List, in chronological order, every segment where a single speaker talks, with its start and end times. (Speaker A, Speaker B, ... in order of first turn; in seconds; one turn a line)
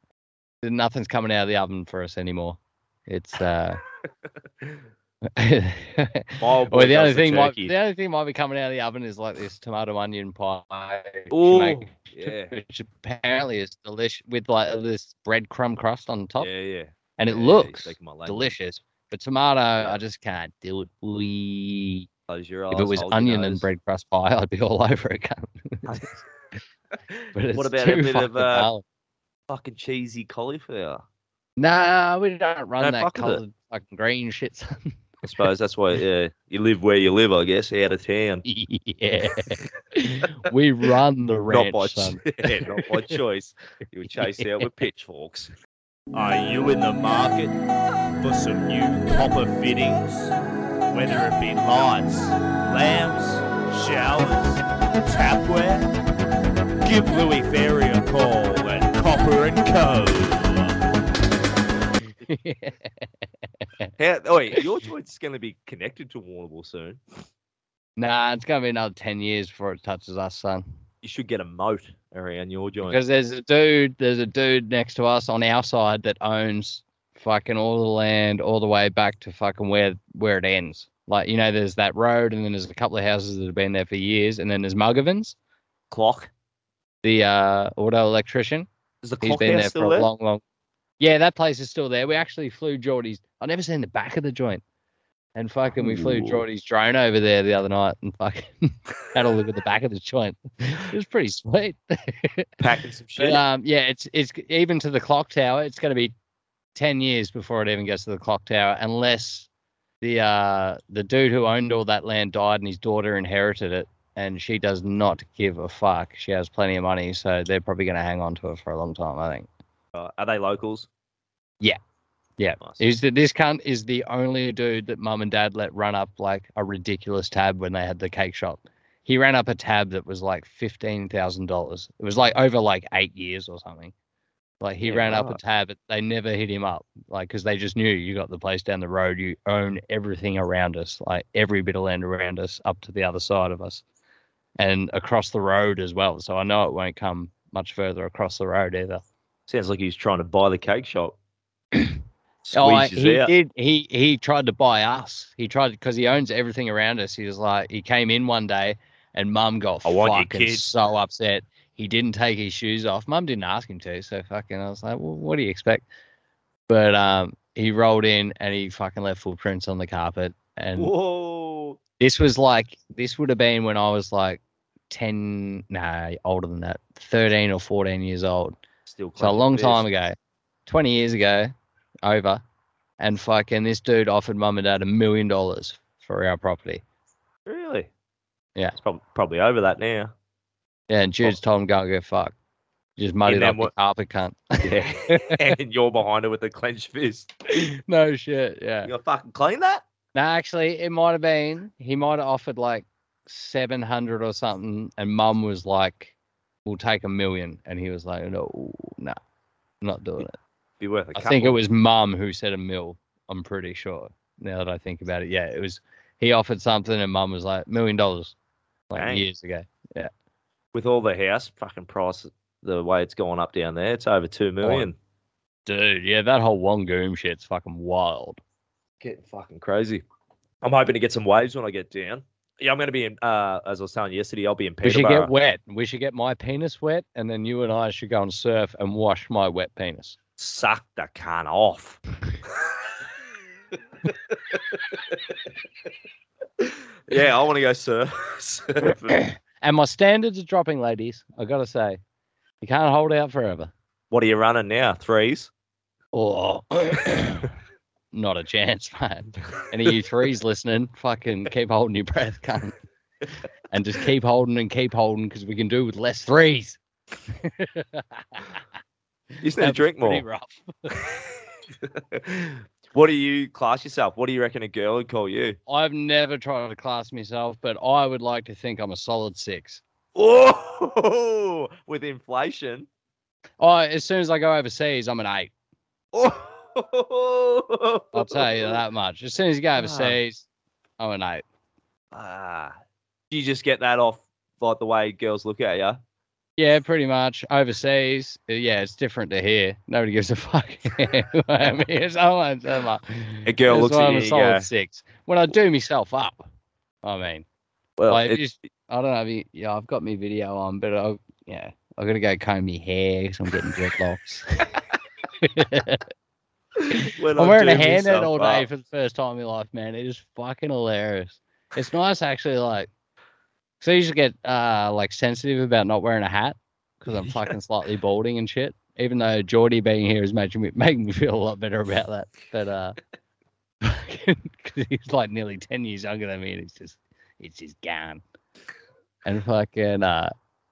Speaker A: 0.6-3.8
Speaker A: 5.3-16.5
Speaker B: 6.4-7.7
Speaker B: 11.3-12.5
Speaker B: 16.4-18.5
Speaker A: 17.2-22.1
Speaker B: 22.3-23.7
Speaker A: 22.7-26.2
Speaker B: 27.1-28.7
Speaker A: 27.4-28.8
Speaker B: 29.5-31.0
Speaker A: 31.6-34.9
Speaker B: 32.8-33.4
Speaker B: 35.2-38.5
Speaker A: 38.5-43.1
Speaker B: 41.5-45.5
Speaker C: 46.1-47.5
Speaker C: 48.2-50.3
Speaker C: 50.9-55.9
Speaker C: 56.8-60.8
Speaker A: 62.2-62.9
Speaker B: 64.0-67.0
Speaker A: 68.0-70.6
Speaker B: 71.0-73.0
Speaker A: 72.8-85.4
Speaker B: 85.9-86.3
Speaker A: 87.0-88.7
Speaker B: 89.0-90.1
Speaker A: 89.2-90.4
Speaker A: 91.0-94.6
Speaker A: 95.4-102.5
Speaker B: 95.8-96.4
Speaker B: 102.6-103.4
Speaker A: 103.2-106.1
Speaker A: 106.8-109.5
Speaker A: 110.0-119.5
Speaker B: 119.9-120.9
Speaker A: 122.4-133.9
Speaker A: 134.6-143.8
Speaker B: 134.8-135.4
Speaker A: 144.6-149.0
Speaker B: 149.5-151.2
Speaker B: 152.4-153.3
Speaker A: 152.5-165.8
Speaker B: 159.8-160.7
Speaker A: 166.7-170.9
Speaker B: 170.8-171.8
Speaker A: 172.0-178.6
Speaker B: 178.9-179.8
Speaker A: 179.2-182.4
Speaker A: 183.0-186.8
Speaker B: 187.5-187.9
Speaker B: 188.8-190.1
Speaker A: 190.9-192.3
Speaker A: 193.0-195.4
Speaker B: 193.3-193.7
Speaker B: 194.6-197.3
Speaker A: 197.6-198.9
Speaker B: 198.8-199.8
Speaker A: 200.2-206.1
Speaker A: 206.7-209.2
Speaker A: 209.8-210.4
Speaker B: 210.8-211.6
Speaker A: 211.2-218.3
Speaker A: 218.9-220.1
Speaker B: 218.9-219.2
Speaker B: 220.7-224.9
Speaker A: 224.6-224.9
Speaker A: 225.7-228.4
Speaker B: 229.0-230.0
Speaker B: 230.6-235.3
Speaker A: 234.8-240.2
Speaker B: 240.4-242.6
Speaker B: 244.0-245.4
Speaker B: 246.6-249.2
Speaker A: 249.2-252.0
Speaker A: 252.6-253.7
Speaker B: 254.1-255.5
Speaker A: 256.1-257.5
Speaker A: 258.1-262.8
Speaker A: 263.7-266.8
Speaker A: 267.3-268.6
Speaker B: 269.4-270.2
Speaker A: 269.6-271.0
Speaker B: 271.8-275.6
Speaker A: 275.7-279.8
Speaker B: 280.1-282.9
Speaker A: 283.6-285.5
Speaker B: 286.1-288.8
Speaker A: 288.1-290.5
Speaker B: 289.8-290.2
Speaker A: 291.0-291.4
Speaker B: 292.1-292.8
Speaker B: 293.3-296.0
Speaker A: 296.6-306.5
Speaker B: 303.5-304.7
Speaker A: 307.0-307.4
Speaker B: 308.0-308.4
Speaker A: 308.1-314.8
Speaker A: 315.4-316.1
Speaker A: 316.9-322.9
Speaker B: 317.1-318.7
Speaker A: 323.8-333.0
Speaker B: 327.2-327.5
Speaker A: 333.8-338.2
Speaker A: 339.2-340.3